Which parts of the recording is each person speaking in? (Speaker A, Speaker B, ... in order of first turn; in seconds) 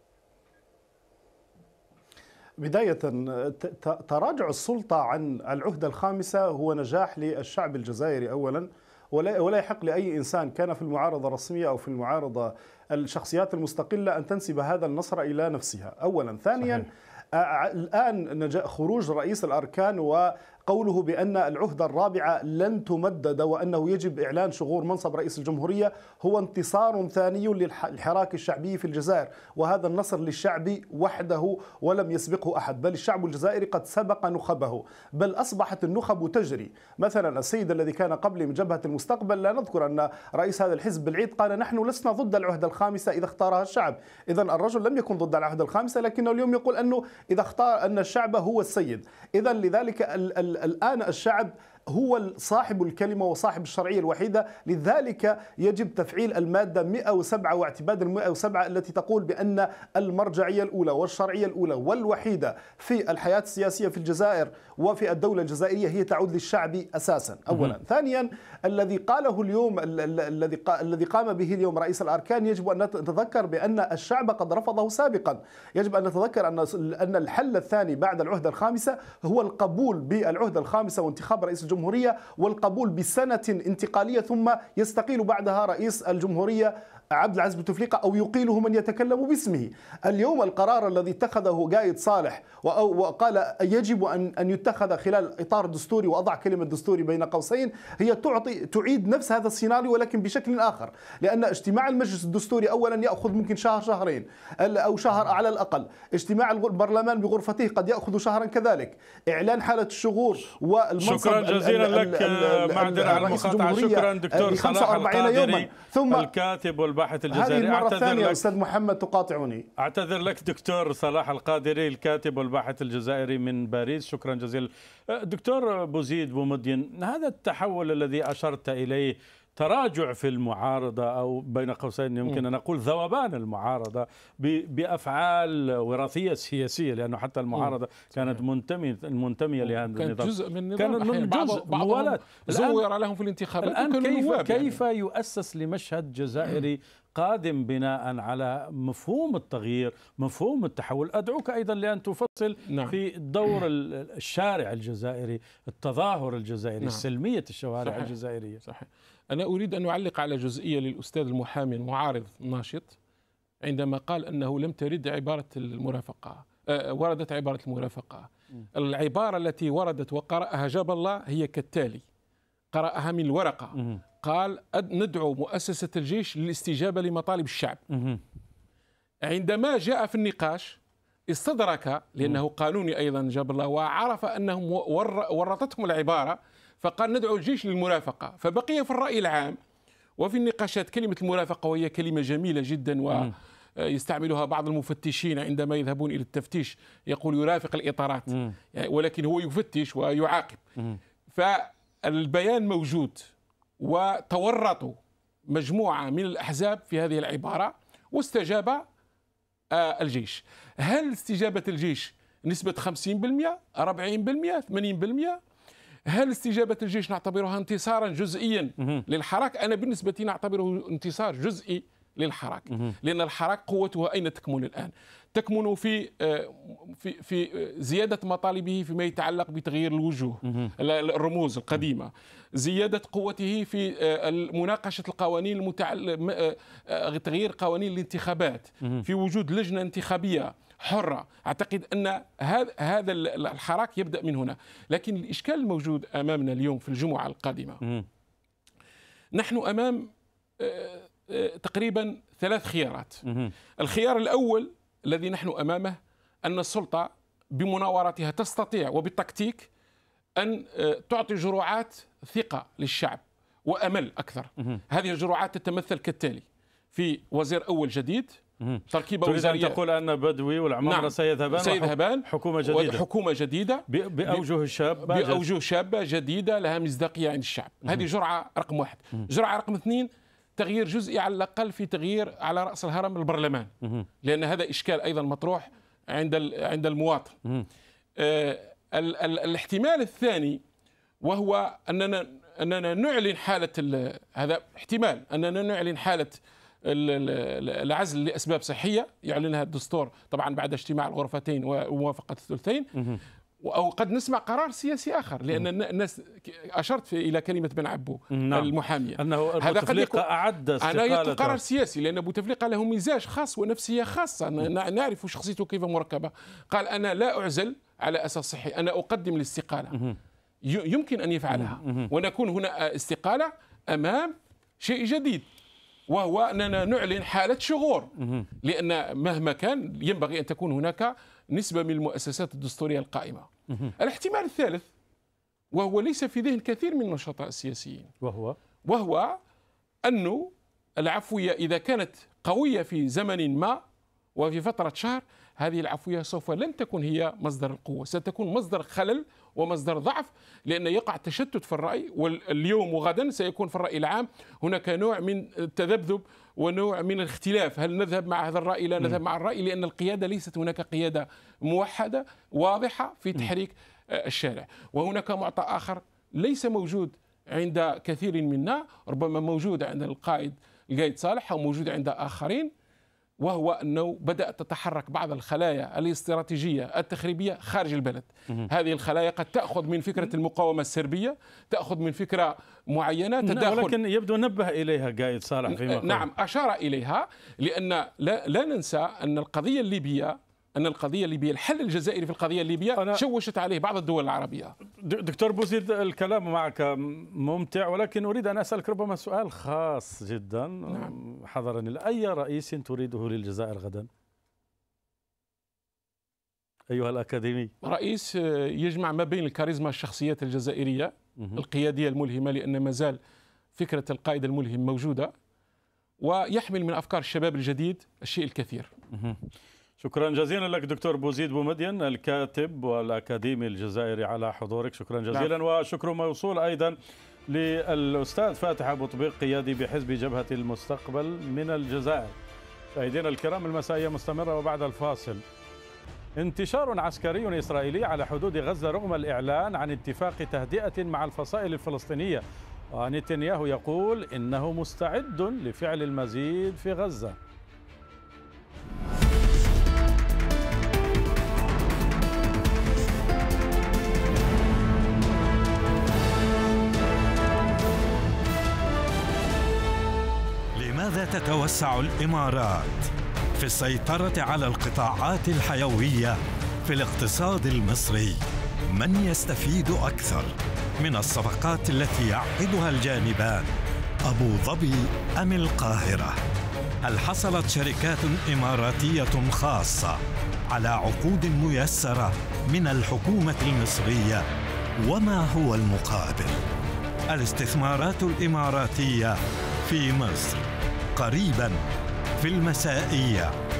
Speaker A: 2.6-116.3, 117.3-119.7
Speaker B: 111.0-118.4, 119.8-142.8, 143.6-158.6, 177.9-178.2, 230.5-230.7, 253.2-253.5, 268.6-273.0, 273.9-275.4, 308.3-311.6, 321.6-322.1, 338.2-338.6, 383.4-386.2, 392.9-393.2, 395.0-404.1, 406.9-407.7, 419.1-419.4, 420.0-426.9, 427.5-432.3, 432.9-435.4, 436.4-442.4, 442.9-447.4
Speaker C: 137.6-138.4, 139.7-144.8, 152.7-153.0, 157.8-162.9, 163.6-172.0, 172.7-177.8, 179.2-180.8, 181.3-189.6, 190.2-200.6, 201.3-203.3, 203.8-204.9, 205.5-208.8, 209.7-215.4, 216.1-247.8, 249.3-253.2, 253.8-259.7, 260.4-269.8, 270.8-274.5, 275.0-283.7, 284.2-287.4, 288.2-290.6, 291.2-302.9, 303.6-310.3, 310.8-319.9, 320.6-325.5, 326.1-334.9, 335.7-338.1, 338.8-339.4, 340.0-343.8, 344.4-372.7, 373.4-383.9, 385.7-394.8, 400.9-401.1, 407.8-413.2, 413.8-415.3, 416.2-418.9
Speaker D: 460.8-473.7, 474.2-476.4, 477.0-480.2, 480.7-484.4, 485.0-486.6, 487.3-491.8, 492.4-493.5